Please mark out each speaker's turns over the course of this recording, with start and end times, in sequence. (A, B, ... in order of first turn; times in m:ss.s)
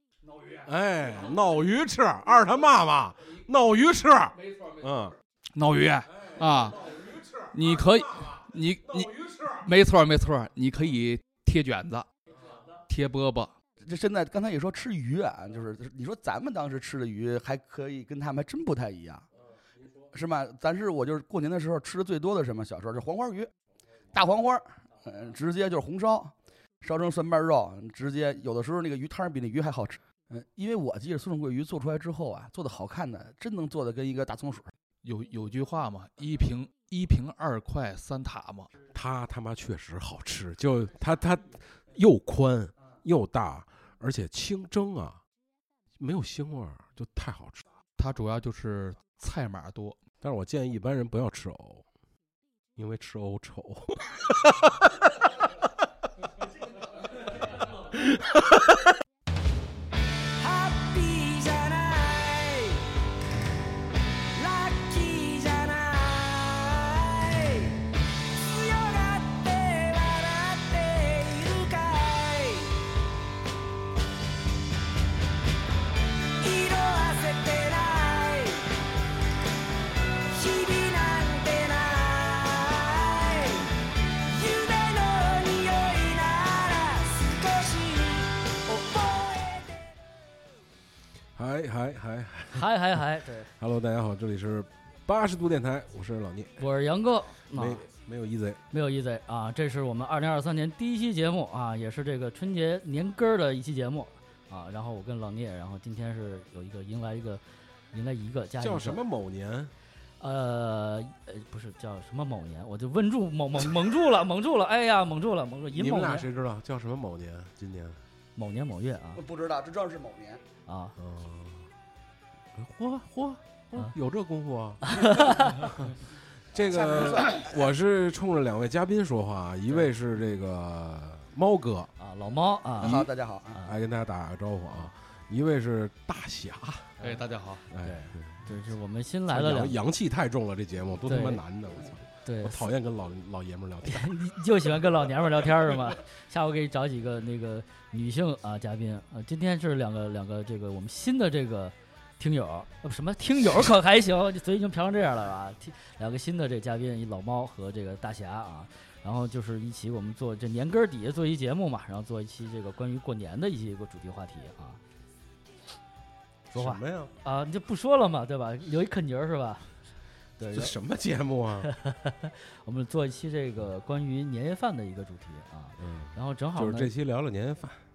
0:00.6-0:05.2 A
0:05.5-0:12.1 B
0:06.4-0:09.6 A
0:12.9-0:13.5 B
0:13.8-0:19.3 C
0:20.1-0:23.5 C
0:24.1-0:34.7 C
0:35.0-0:38.7 B
0:38.9-0:45.2 A
0:46.0-0:47.6 A
0:48.0-0:50.0 B
0:50.2-0:51.8 A
0:52.8-0:55.1 A
0:57.8-0:58.9 A
1:00.4-1:02.9 D
1:04.3-1:12.8 D
1:16.4-1:18.7 D
1:20.3-1:29.9 D
1:31.4-1:36.6 A
1:32.5-1:33.5 E
1:36.6-1:37.8 E
1:37.5-1:38.6 A
1:38.7-1:47.4 E
1:47.9-1:49.0 E
1:48.6-1:49.7 A
1:50.2-1:56.3 E
1:55.7-1:58.0 A
1:58.4-1:59.2 E
1:59.2-2:00.4 C
2:00.7-2:00.9 E
2:01.0-2:01.7 A
2:02.5-2:11.9 A
2:04.8-2:05.7 E
2:06.7-2:07.6 C
2:12.0-2:13.8 E
2:12.8-2:13.6 C
2:13.6-2:16.9 A
2:17.0-2:17.2 E
2:17.0-2:17.6 B
2:17.7-2:18.5 A
2:17.8-2:19.8 E
2:19.3-2:24.2 A
2:21.0-2:21.4 E
2:22.2-2:22.7 E
2:23.8-2:44.8 E
2:46.5-2:47.1 A
2:46.6-2:49.7 E
2:50.4-2:50.8 E
2:50.5-2:51.7 A
2:51.6-2:56.9 E
2:55.8-2:57.8 A